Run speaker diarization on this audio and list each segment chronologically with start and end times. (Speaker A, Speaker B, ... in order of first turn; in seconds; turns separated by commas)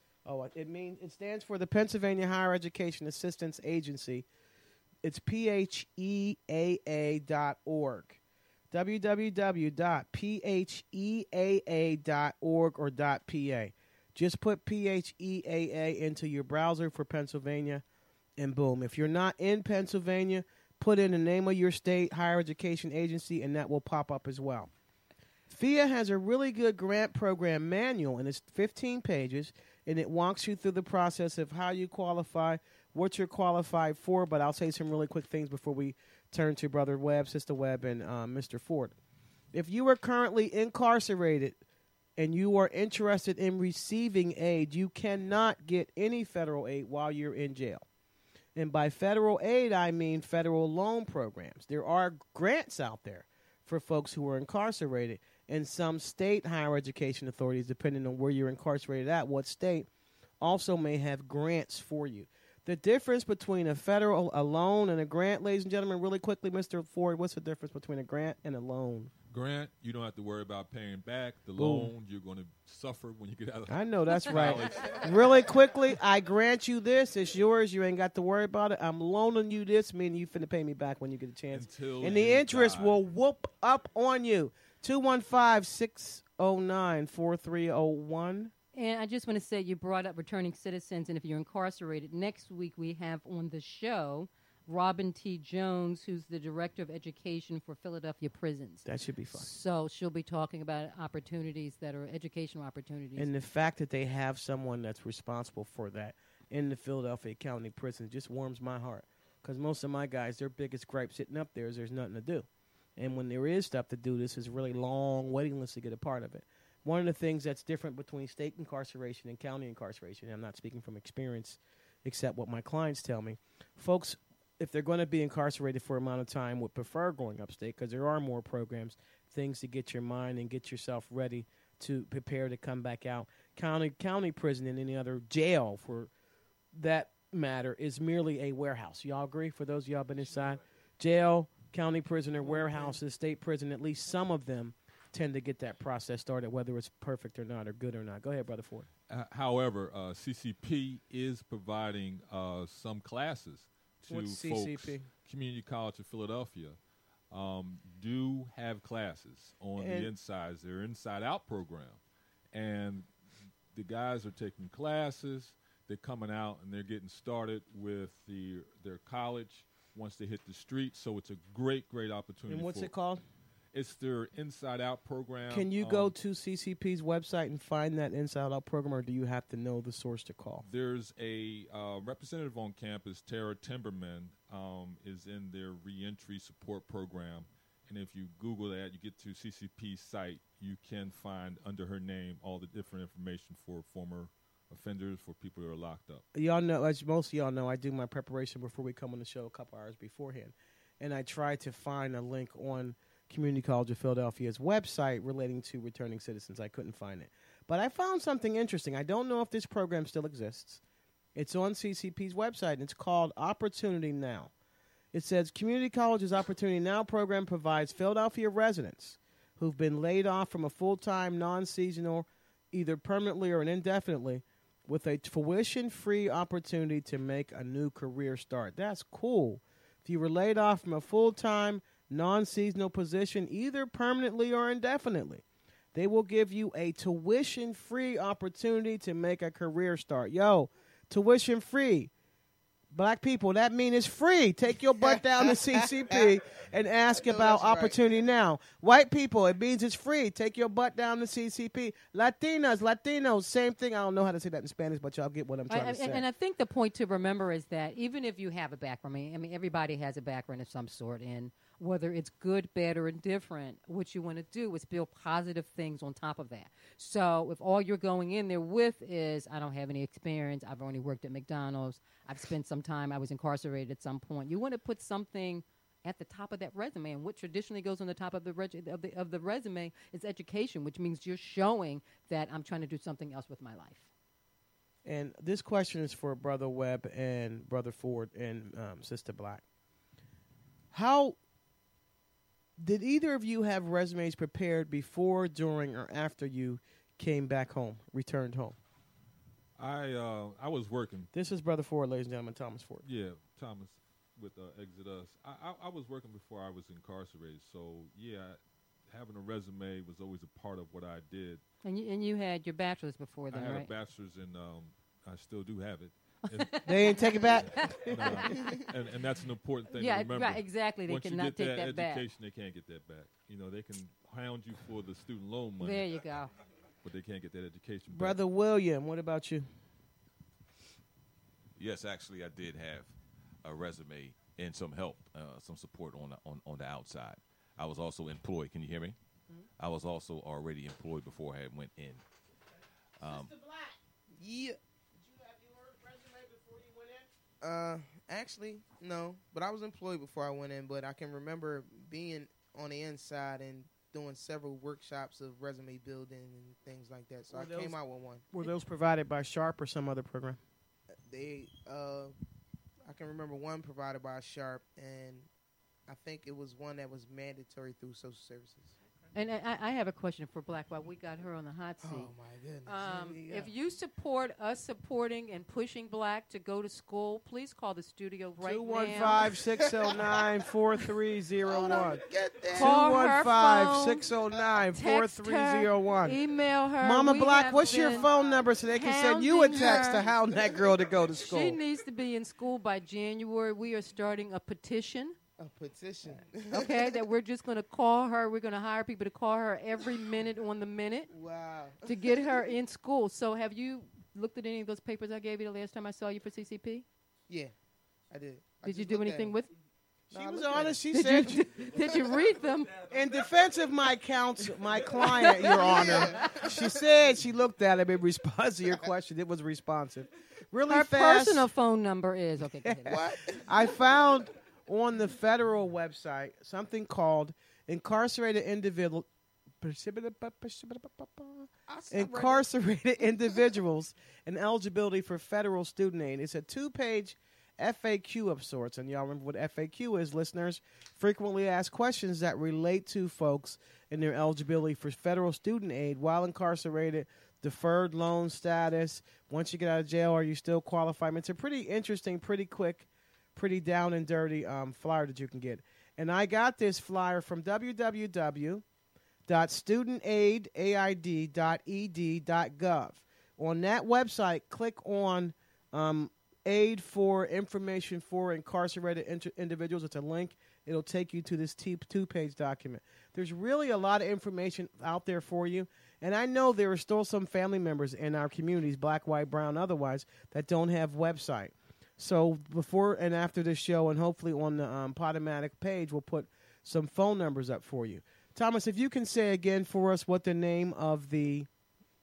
Speaker A: 0.2-4.2, Speaker A: 5.0-8.2, Speaker A: 8.7-17.8, Speaker A: 18.4-24.7, Speaker A: 25.5-38.9, Speaker A: 39.5-41.6, Speaker A: 42.2-47.8, Speaker A: 48.5-59.9, Speaker A: 60.4-69.1, Speaker B: 69.3-75.3, Speaker A: 71.6-71.9, Speaker A: 73.7-88.5, Speaker B: 81.5-83.0, Speaker C: 88.7-103.3, Speaker A: 98.8-99.5, Speaker A: 103.2-136.1, Speaker A: 136.7-148.9, Speaker B: 149.1-156.8, Speaker A: 154.1-155.1, Speaker B: 157.3-162.0, Speaker A: 159.8-160.1, Speaker B: 162.5-163.1, Speaker B: 163.7-172.9, Speaker A: 172.5-173.2, Speaker B: 173.7-176.1, Speaker A: 175.5-180.7, Speaker B: 180.6-196.2, Speaker A: 196.3-210.8, Speaker A: 211.3-214.5, Speaker A: 215.1-242.1, Speaker A: 242.9-256.2, Speaker D: 246.1-246.3, Speaker D: 247.2-248.0, Speaker C: 255.7-284.1, Speaker A: 285.0-289.6, Speaker A: 290.9-291.4, Speaker A: 292.8-298.8, Speaker B: 299.8-301.3, Speaker A: 301.3-303.0, Speaker B: 303.0-311.6, Speaker C: 311.8-313.9, Speaker B: 313.5-317.3, Speaker C: 316.6-318.7, Speaker A: 316.9-318.4, Speaker B: 317.9-326.1, Speaker C: 319.9-322.2, Speaker C: 325.8-326.5, Speaker B: 327.0-328.4, Speaker A: 328.1-329.7, Speaker E: 331.8-333.1, Speaker E: 333.6-339.1, Speaker E: 339.8-342.2, Speaker E: 343.2-343.5, Speaker A: 343.2-344.0, Speaker D: 344.3-344.8, Speaker A: 345.2-347.3, Speaker D: 347.6-358.5, Speaker A: 357.5-358.0, Speaker A: 358.5-360.6, Speaker D: 361.2-362.3, Speaker D: 363.0-365.5, Speaker D: 366.1-369.0, Speaker C: 369.3-372.3, Speaker D: 372.0-373.7, Speaker C: 372.9-379.5, Speaker A: 378.6-386.4, Speaker D: 379.9-380.5, Speaker D: 381.6-382.9, Speaker C: 382.7-384.2, Speaker C: 384.9-390.2, Speaker A: 387.0-391.8, Speaker D: 387.9-388.7, Speaker D: 389.8-390.7, Speaker C: 391.4-395.4, Speaker D: 395.6-397.2, Speaker C: 396.7-401.3, Speaker D: 401.3-402.6, Speaker C: 402.0-407.1, Speaker D: 408.3-409.6, Speaker C: 408.8-409.7, Speaker A: 410.3-411.9, Speaker D: 410.3-411.0, Speaker C: 411.1-413.0, Speaker D: 411.8-412.4, Speaker A: 413.0-421.7, Speaker D: 415.2-416.9, Speaker C: 415.2-416.1, Speaker C: 420.9-423.2, Speaker A: 422.8-429.3, Speaker D: 423.1-424.0, Speaker A: 429.8-458.8, Speaker D: 431.9-432.6, Speaker A: 459.5-491.7